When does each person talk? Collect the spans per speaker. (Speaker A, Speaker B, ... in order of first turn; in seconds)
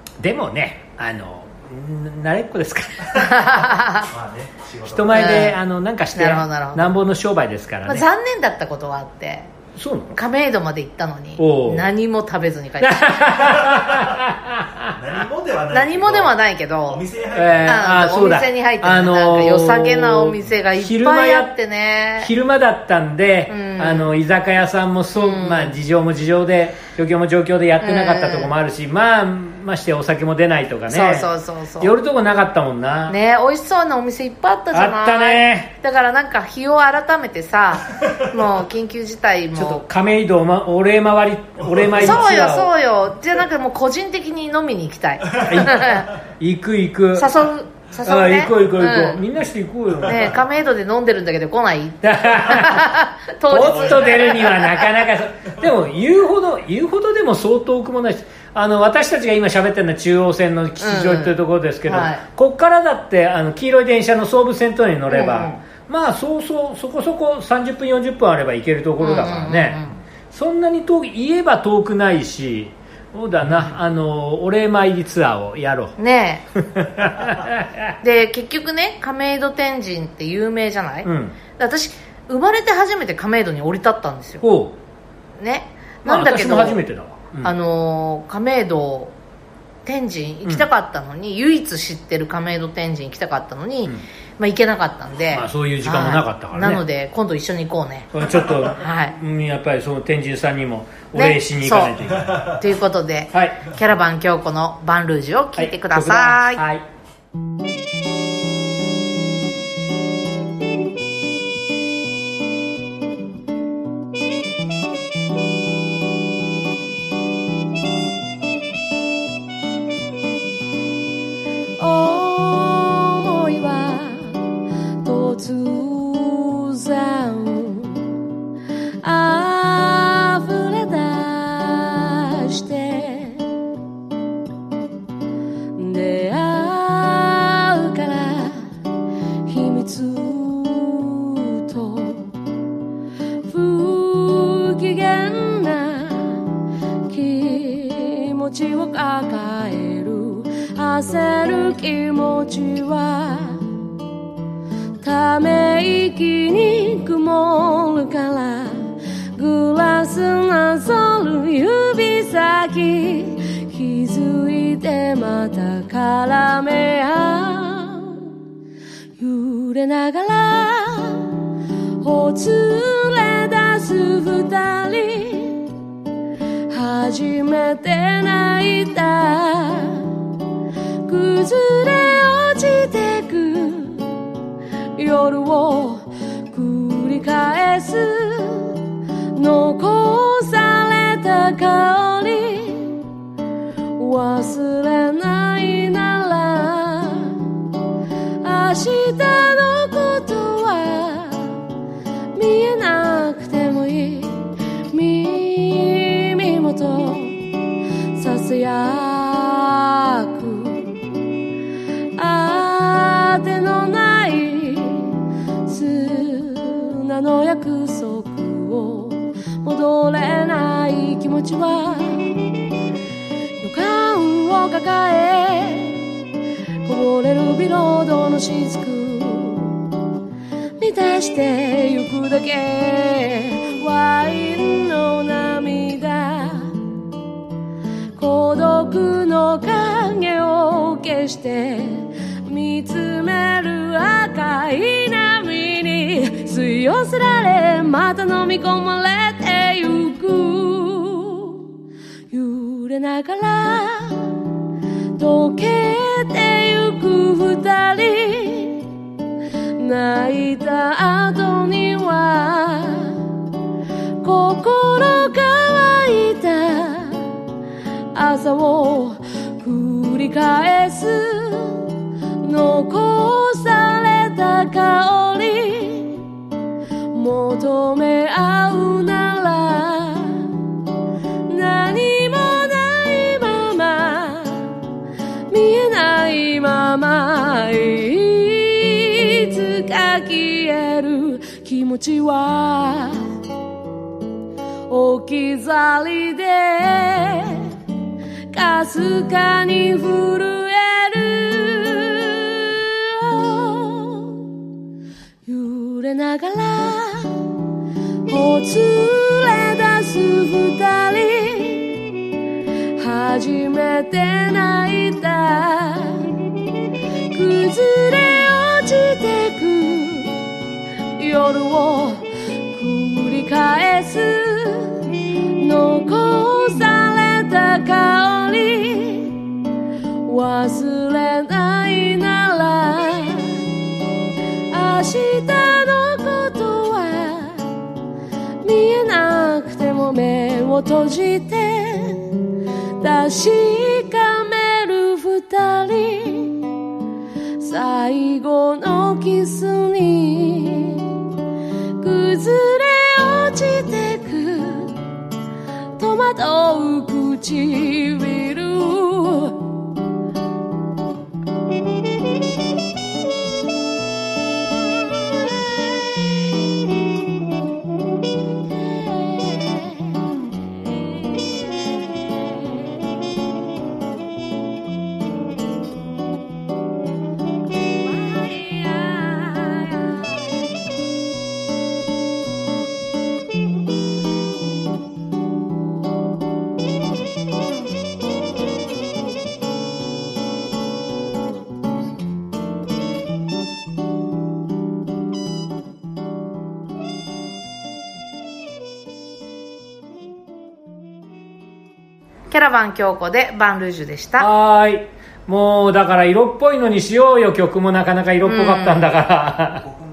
Speaker A: 0.2-3.4, 4.9-8.0, 9.8-10.2, 11.4-11.9, 12.8-14.9, 17.3-21.5, 22.2-31.3, 31.8-33.1, 34.7-35.7, 39.5-42.7, 45.4-47.3, 48.0-50.3, 52.0-52.9, 53.5-69.8, 70.3-75.9, 76.6-77.9, 81.0-81.3, 84.4-84.7, 86.0-87.5, 95.3-96.8, 98.1-102.6, 103.3-103.6, 105.6-106.8, 404.4-409.9
Speaker B: 3.1-4.1, 5.1-5.6, 6.2-6.9, 7.8-9.5, 10.1-13.5, 15.7-17.0, 17.6-22.3, 23.5-24.1, 25.1-25.8, 27.8-28.5, 30.9-31.9, 33.1-39.8, 41.9-46.1, 47.1-49.2, 50.0-54.9, 60.8-62.2, 65.1-65.6, 69.0-70.0, 76.0-76.4, 78.0-84.4, 85.4-86.8, 87.4-89.1, 89.8-99.1, 101.1-106.6, 402.5-404.5, 408.4-409.1
Speaker C: 4.1-5.2, 14.9-16.4, 16.9-17.8, 53.6-54.4
Speaker D: 121.8-124.4, 125.0-128.1, 129.0-133.4, 135.8-138.7, 139.4-142.3, 143.4-146.6, 147.1-153.7, 155.0-168.2, 169.2-171.4, 172.0-175.7, 176.7-180.2, 181.1-184.1, 185.0-188.8, 189.3-193.0, 194.0-197.5, 198.4-201.6, 202.3-207.4, 208.1-210.9, 212.2-222.4, 223.6-226.0, 226.8-229.8, 230.8-236.8, 238.2-251.6, 252.3-254.4, 255.2-258.9, 259.8-263.2, 264.2-267.3, 268.1-271.9, 272.4-276.2, 277.1-280.5, 281.5-284.8, 285.5-293.4, 294.9-297.7, 298.5-304.4, 305.4-307.5, 308.3-312.0, 313.0-316.3, 317.3-320.4, 321.2-329.5, 330.2-333.7, 334.7-337.7, 338.6-342.4, 343.0-346.7, 347.6-351.1, 352.0-355.0, 356.0-359.6, 364.8-366.3, 368.7-372.9, 377.8-380.6